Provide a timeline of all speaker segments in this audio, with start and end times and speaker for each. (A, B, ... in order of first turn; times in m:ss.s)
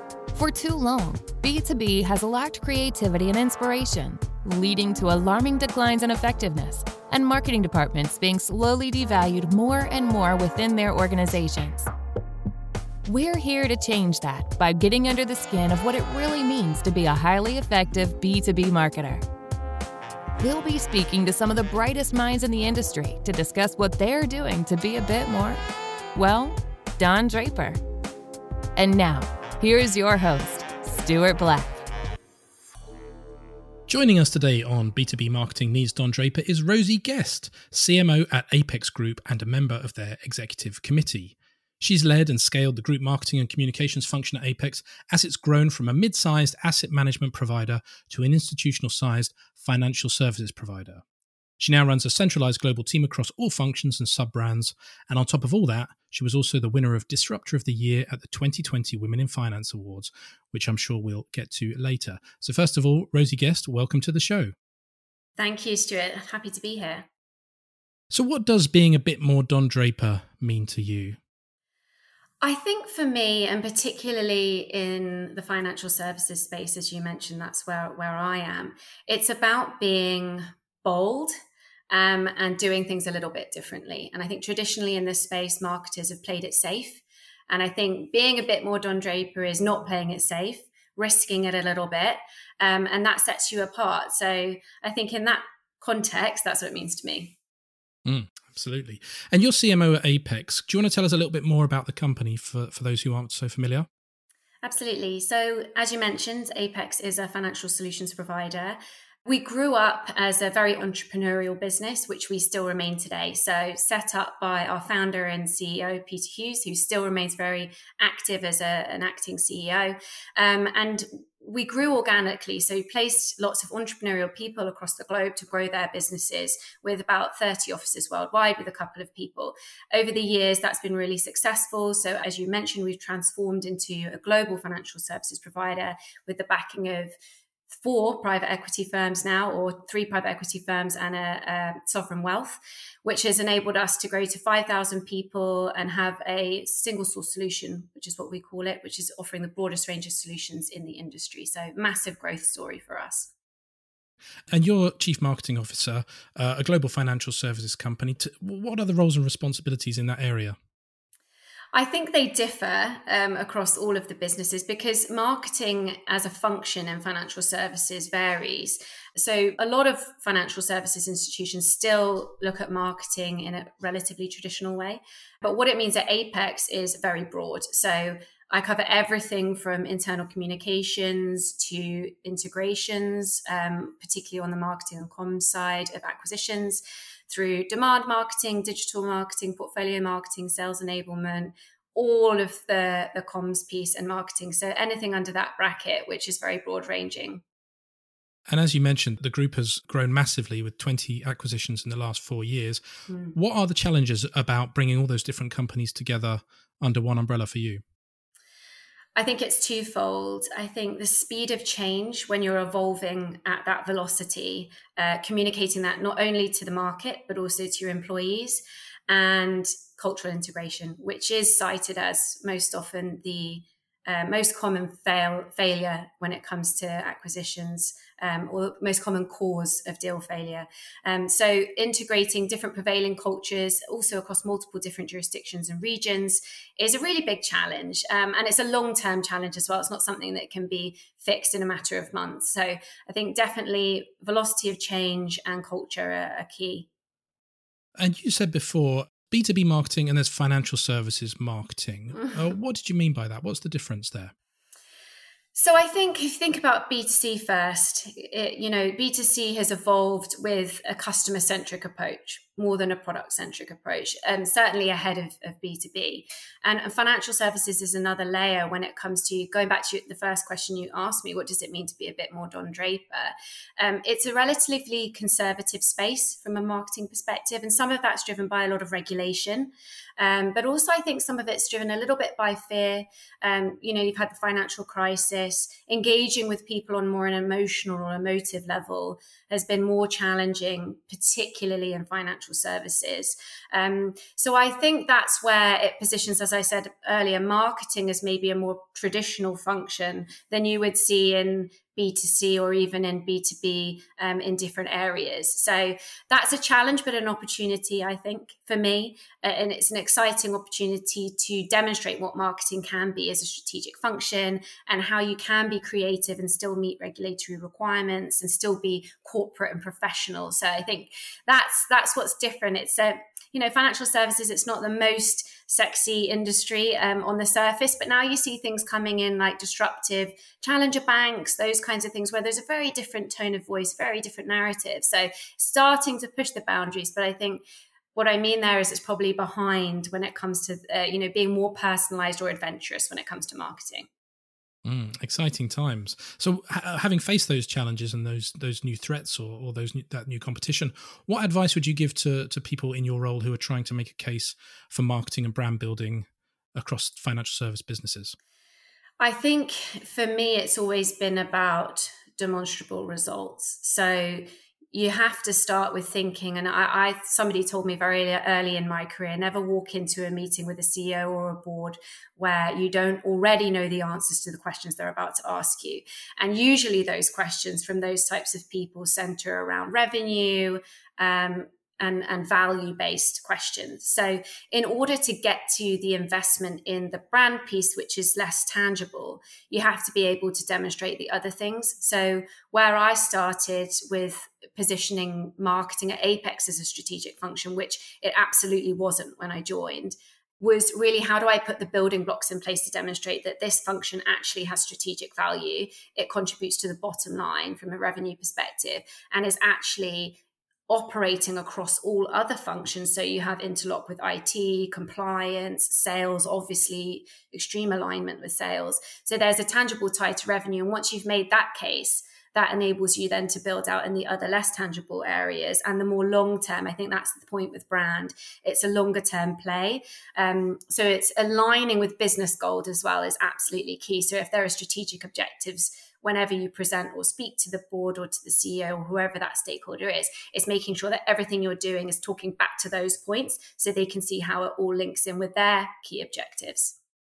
0:00.3-0:11.9 A
0:13.0-0:19.2 A
0:20.4-0:25.6 A
0:26.2-0:27.8 A
0:28.8-0:31.9 A
0:33.9-0:51.0 B
0:51.6-1:04.5 B
1:05.4-1:07.1 C
1:08.1-1:11.2 B
1:12.4-1:21.3 C
1:21.9-1:37.4 C
1:38.0-1:43.9 B
1:44.6-2:17.1 C
2:17.7-2:33.3 C
2:34.5-2:40.6 B
2:41.7-3:17.4 C
3:18.5-3:22.8 B
3:23.1-3:23.4 C
3:23.4-3:27.8 B
3:29.2-4:06.9 C
4:08.0-4:14.3 B
4:15.6-5:37.6 C
5:38.2-5:44.1 C
5:44.8-5:58.4 B
5:59.2-6:50.4 C
6:50.9-7:27.0 C